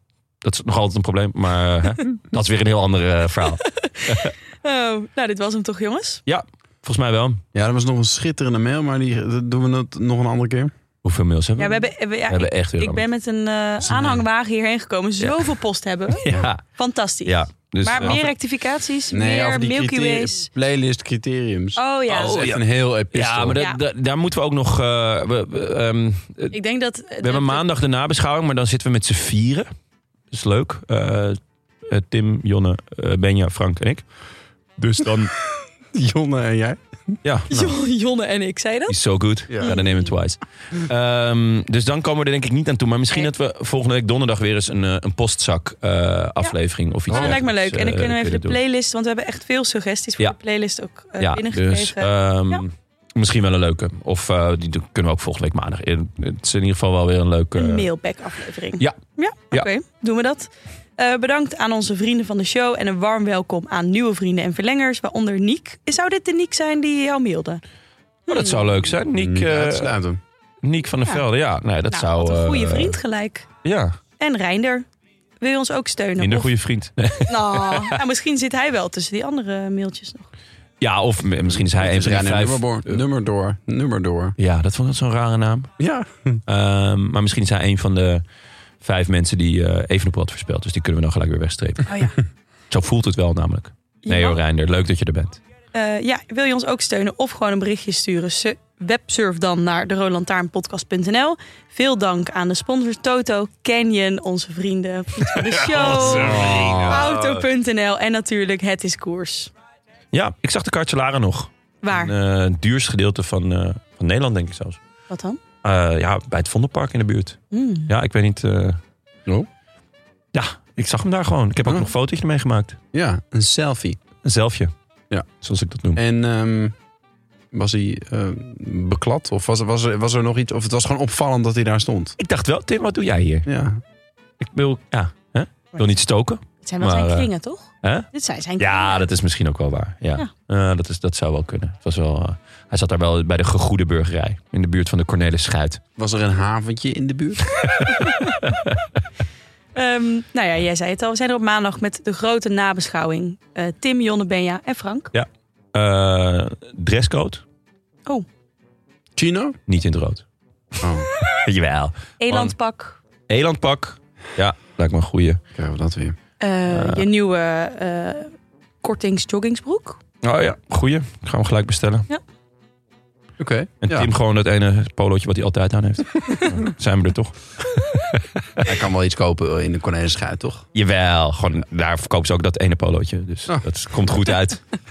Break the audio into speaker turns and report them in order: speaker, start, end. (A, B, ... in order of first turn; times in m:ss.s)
0:00.4-0:04.3 A
0:03.8-0:06.2 B
0:06.3-0:07.4 A
0:07.5-0:10.7 C
0:11.0-0:13.0 A
0:11.6-0:20.5 B
0:13.8-0:14.2 C
0:15.2-0:15.5 A
0:16.1-0:16.6 A
0:17.2-0:18.3 A
0:19.1-0:23.6 C
0:21.8-0:22.4 B
0:22.1-0:22.6 A
0:23.1-0:26.6 A
0:23.6-0:23.8 B
0:26.5-0:27.6 B
0:27.2-0:29.7 A
0:30.3-0:31.4 A
0:31.9-0:34.0 A
0:34.8-0:35.3 A
0:35.9-0:36.8 C
0:37.2-0:37.8 A
0:37.5-0:39.0 B
0:38.9-0:48.6 A
0:39.5-0:39.8 C
0:39.6-0:40.1 B
0:47.1-0:47.4 C
0:47.1-0:52.6 B
0:51.2-0:57.9 A
0:57.6-1:07.6 B
1:08.3-1:08.7 B
1:08.3-1:09.9 A
1:09.1-1:10.2 C
1:10.6-1:13.0 A
1:11.9-1:13.5 B
1:13.6-1:14.0 A
1:14.2-1:14.9 B
1:15.4-1:16.5 B
1:16.2-1:18.0 A
1:17.3-1:20.3 B
1:20.8-1:23.0 A
1:21.5-1:24.4 C
1:24.4-1:25.7 A
1:25.8-1:26.4 C
1:26.5-1:28.2 A
1:28.8-1:32.1 A
1:31.9-1:32.2 B
1:32.7-1:35.4 A
1:34.1-1:34.4 B
1:35.7-1:49.5 B
1:45.4-1:47.5 A
1:46.1-1:47.0 C
1:50.1-1:54.8 A
1:51.8-1:52.1 B
1:55.1-1:55.4 B
1:55.6-1:58.8 A
1:57.5-1:57.9 B
2:00.3-2:02.8 A
2:01.6-2:01.9 C
2:02.9-2:04.0 C
2:04.2-2:04.7 A
2:05.4-2:06.0 A
2:05.9-2:06.7 C
2:07.5-2:12.2 C
2:12.2-2:13.5 A
2:13.5-2:13.8 C
2:14.4-2:17.3 A
2:16.6-2:19.0 B
2:17.8-2:18.1 A
2:18.6-2:25.8 A
2:26.0-2:27.9 C
2:27.6-2:28.8 A
2:29.8-2:35.1 B
2:35.1-2:37.4 A
2:39.2-2:39.6 C
2:39.7-2:40.2 A
2:40.8-2:41.1 C
2:41.2-2:42.5 A
2:42.2-2:43.0 B
2:43.3-2:45.4 A
2:45.6-2:46.2 C
2:46.4-2:48.3 B
2:46.7-2:47.1 A
2:48.8-2:50.0 B
2:50.2-2:52.1 A
2:53.4-2:54.1 C
2:53.8-2:58.7 A
2:58.6-3:00.6 C
3:00.7-3:04.6 A